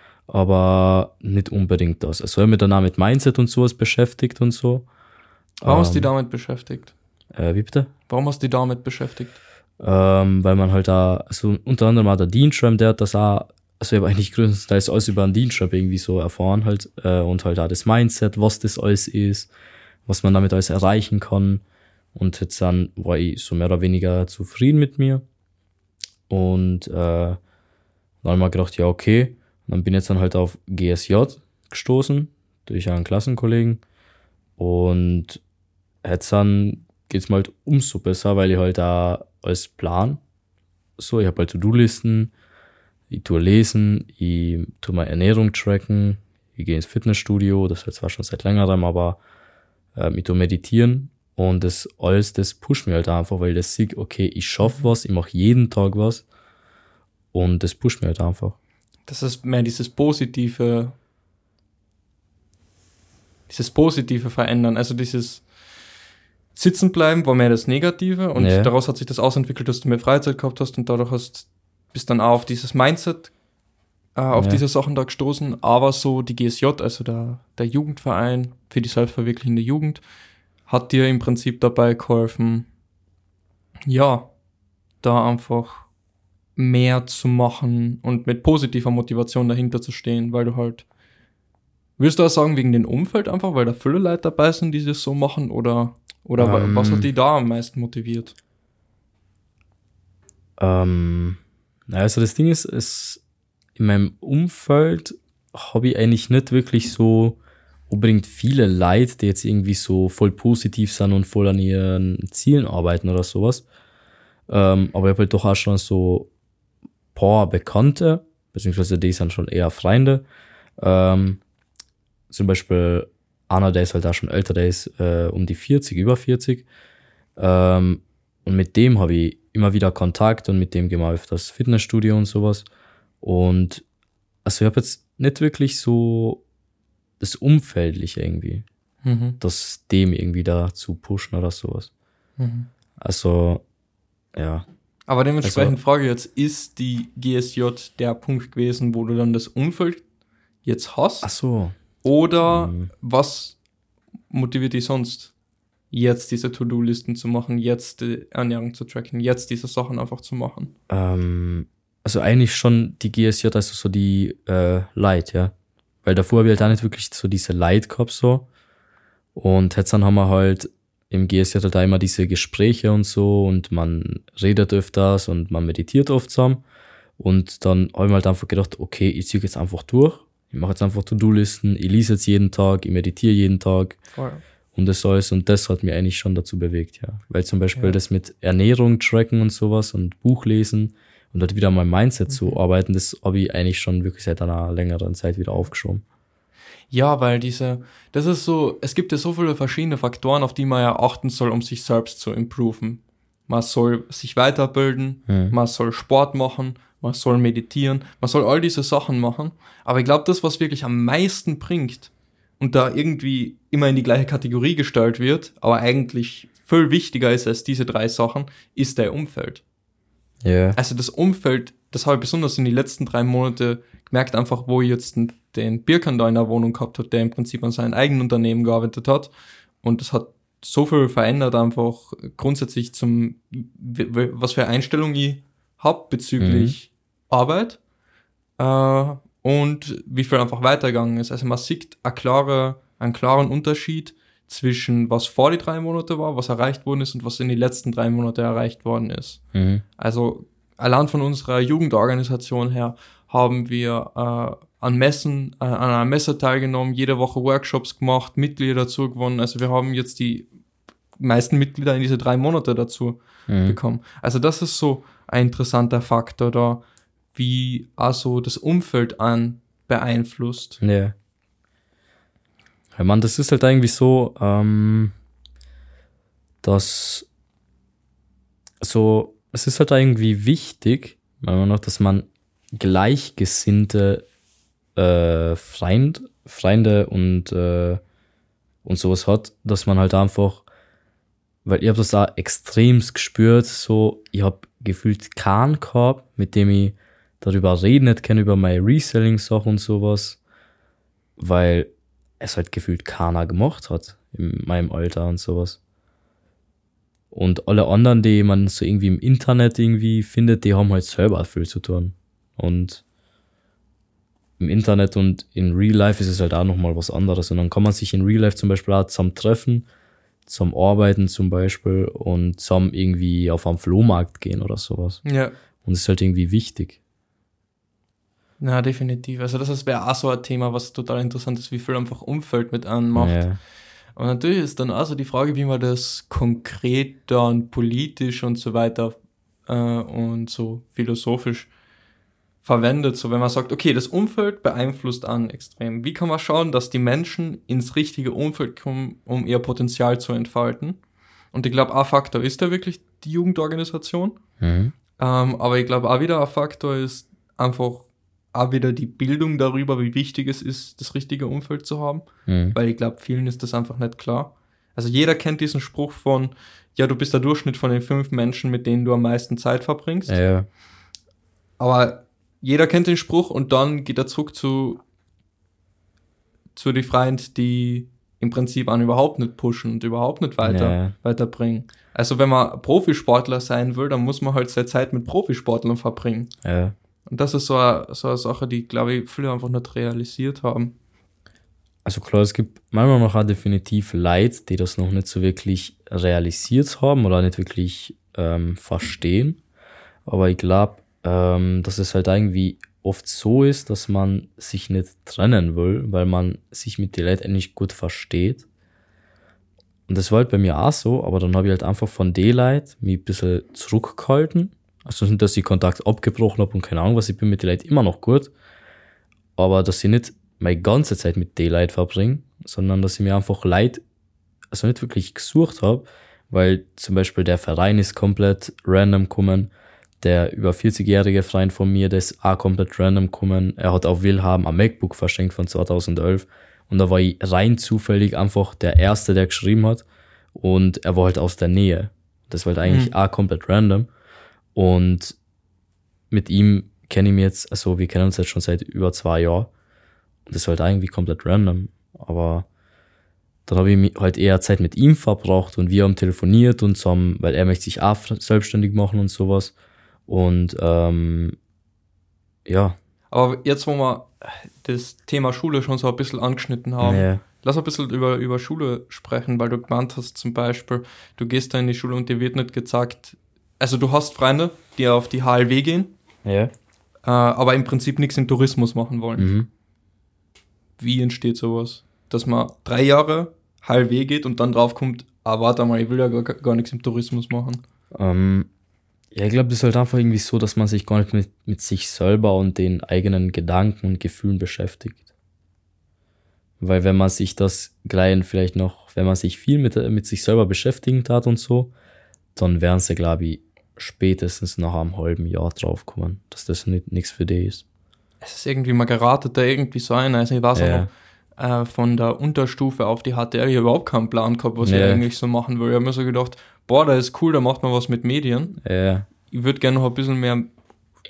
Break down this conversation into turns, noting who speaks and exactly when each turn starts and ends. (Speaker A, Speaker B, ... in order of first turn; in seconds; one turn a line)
Speaker A: 0.3-4.9
Speaker A: 5.6-6.1
Speaker B: 5.6-6.9
Speaker A: 7.3-7.9
Speaker B: 8.1-9.4
Speaker A: 9.8-19.5
Speaker A: 20.1-21.6
Speaker A: 22.1-25.2
Speaker A: 26.3-27.4
Speaker A: 28.2-33.8
Speaker A: 34.6-35.4
Speaker A: 36.0-40.2
Speaker A: 41.0-42.3
Speaker A: 43.1-49.2
Speaker A: 50.0-56.2
Speaker A: 57.3-58.6
Speaker B: 59.1-61.0
Speaker B: 63.5-65.5
Speaker B: 66.5-73.3
Speaker A: 68.4-68.7
Speaker B: 74.2-80.0
Speaker A: 74.3-74.6
Speaker B: 80.7-82.7
Speaker B: 83.9-84.3
Speaker B: 85.0-85.9
Speaker B: 86.6-90.8
Speaker B: 92.0-98.3
Speaker A: 96.4-97.1
Speaker A: 100.6-103.2
Speaker A: 103.8-107.4
Speaker A: 107.9-113.7
Speaker A: 114.5-116.3
Speaker A: 117.2-120.2
Speaker A: 120.8-121.4
Speaker A: 122.3-126.7
Speaker A: 127.4-132.7
Speaker A: 133.2-133.8
Speaker A: 134.4-136.4
Speaker A: 137.2-138.7
Speaker B: 139.0-139.4
Speaker A: 139.4-141.9
Speaker B: 142.4-142.7
Speaker A: 143.0-143.6
Speaker A: 144.3-144.7
Speaker B: 145.1-150.0
Speaker A: 145.4-145.8
Speaker B: 150.6-151.3
Speaker A: 151.2-151.8
Speaker B: 152.0-153.6
Speaker A: 152.5-152.9
Speaker B: 154.3-155.3
Speaker B: 155.9-160.7
Speaker A: 160.9-165.5
Speaker A: 166.0-168.5
Speaker A: 169.3-176.6
Speaker A: 177.2-184.0
Speaker B: 184.1-184.4
Speaker A: 184.8-196.0
Speaker B: 192.3-192.6
Speaker B: 196.9-219.6
Speaker A: 205.3-205.6
Speaker A: 220.4-220.8
Speaker B: 220.8-237.8
Speaker A: 236.4-236.7
Speaker B: 238.6-249.4
Speaker A: 249.5-249.8
Speaker B: 250.0-260.5
Speaker B: 261.2-266.8
Speaker A: 263.5-263.8
Speaker B: 267.3-270.8
Speaker A: 270.8-271.1
Speaker A: 272.9-275.1
Speaker A: 276.6-277.3
Speaker A: 278.8-284.2
Speaker A: 285.0-288.0
Speaker A: 288.9-290.7
Speaker A: 291.6-300.4
Speaker A: 301.4-305.8
Speaker A: 307.3-313.0
Speaker A: 314.6-319.9
Speaker A: 320.5-325.2
Speaker B: 325.2-325.5
Speaker A: 325.8-327.0
Speaker B: 328.6-333.4
Speaker A: 333.1-333.6
Speaker B: 334.2-339.2
Speaker B: 339.7-341.7
Speaker B: 342.6-351.0
Speaker B: 351.5-354.4
Speaker A: 354.6-354.9
Speaker B: 355.2-370.4
Speaker A: 362.5-362.8
Speaker A: 370.3-370.7
Speaker B: 371.8-375.0
Speaker B: 376.8-386.5
Speaker A: 380.6-381.1
Speaker A: 386.6-386.9
Speaker B: 387.3-390.9
Speaker A: 392.1-399.6
Speaker A: 400.3-408.6
Speaker A: 410.1-418.5
Speaker A: 419.6-424.0
Speaker A: 424.7-440.0
Speaker A: 440.6-444.1
Speaker B: 442.9-443.1
Speaker A: 444.8-445.4
Speaker A: 446.3-449.7
Speaker A: 450.5-452.7
Speaker A: 453.7-459.7
Speaker A: 460.3-461.6
Speaker A: 462.7-463.0
Speaker B: 463.3-476.1
Speaker A: 467.0-467.4
Speaker A: 476.4-476.7
Speaker B: 477.3-479.5
Speaker A: 479.4-479.7
Speaker B: 481.0-487.8
Speaker A: 488.1-488.7
Speaker A: 489.3-495.2
Speaker A: 496.8-501.9
Speaker A: 502.6-507.8
Speaker B: 508.4-518.8
Speaker A: 510.8-511.1
Speaker A: 514.8-515.2
Speaker A: 518.8-519.3
Speaker B: 519.5-520.7